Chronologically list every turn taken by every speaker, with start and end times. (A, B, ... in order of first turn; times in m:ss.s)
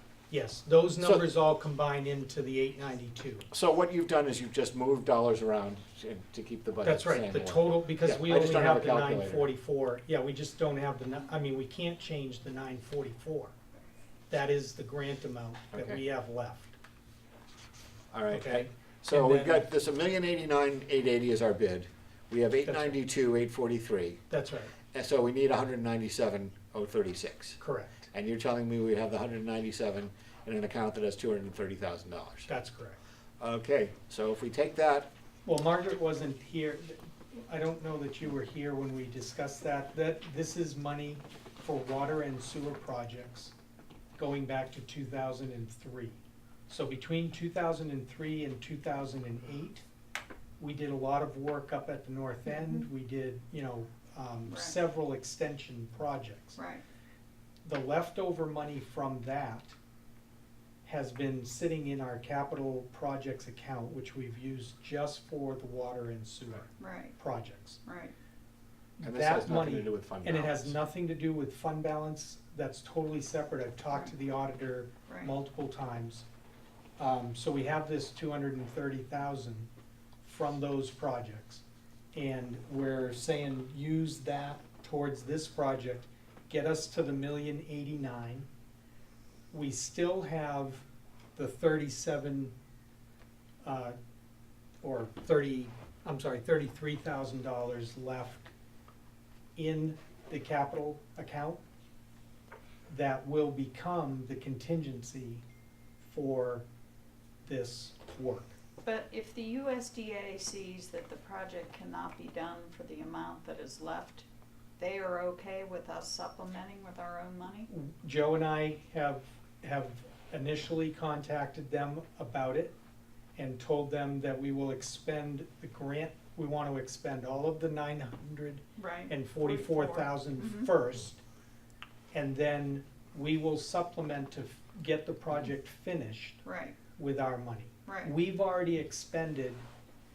0:00.3-0:03.5 A
0:03.5-0:09.5 B
0:06.8-0:13.5 A
0:14.3-0:16.8 A
0:15.7-0:16.0 B
0:18.1-0:24.2 B
0:18.3-0:19.6 A
0:22.6-0:23.0 A
0:24.3-0:24.7 A
0:24.9-0:27.6 B
0:27.6-0:28.0 A
0:28.1-0:32.5 B
0:32.5-0:33.0 A
0:33.4-0:35.1 B
0:35.4-0:43.5 A
0:44.2-0:49.8 A
0:50.6-0:56.6 A
0:52.5-0:52.8 C
0:54.5-0:54.7 C
0:56.6-0:56.8 C
0:57.6-0:59.8 A
1:00.8-1:07.8 A
1:06.8-1:07.2 C
1:07.8-1:08.1 C
1:09.0-1:16.2 A
1:09.0-1:10.8 B
1:17.0-1:19.7 A
1:20.2-1:28.5 A
1:29.5-1:30.8 A
1:31.4-1:32.5 A
1:33.6-1:34.0 A
1:34.8-1:38.5 A
1:39.6-1:41.6 A
1:42.9-1:45.4 A
1:46.0-1:46.6 A
1:47.4-1:48.5 A
1:48.8-1:54.3 C
1:54.8-1:57.7 C
1:57.7-2:02.8 A
2:03.4-2:11.2 A
2:08.8-2:10.7 C
2:12.1-2:16.4 A
2:16.4-2:16.8 C
2:17.0-2:19.6 A
2:17.9-2:18.1 C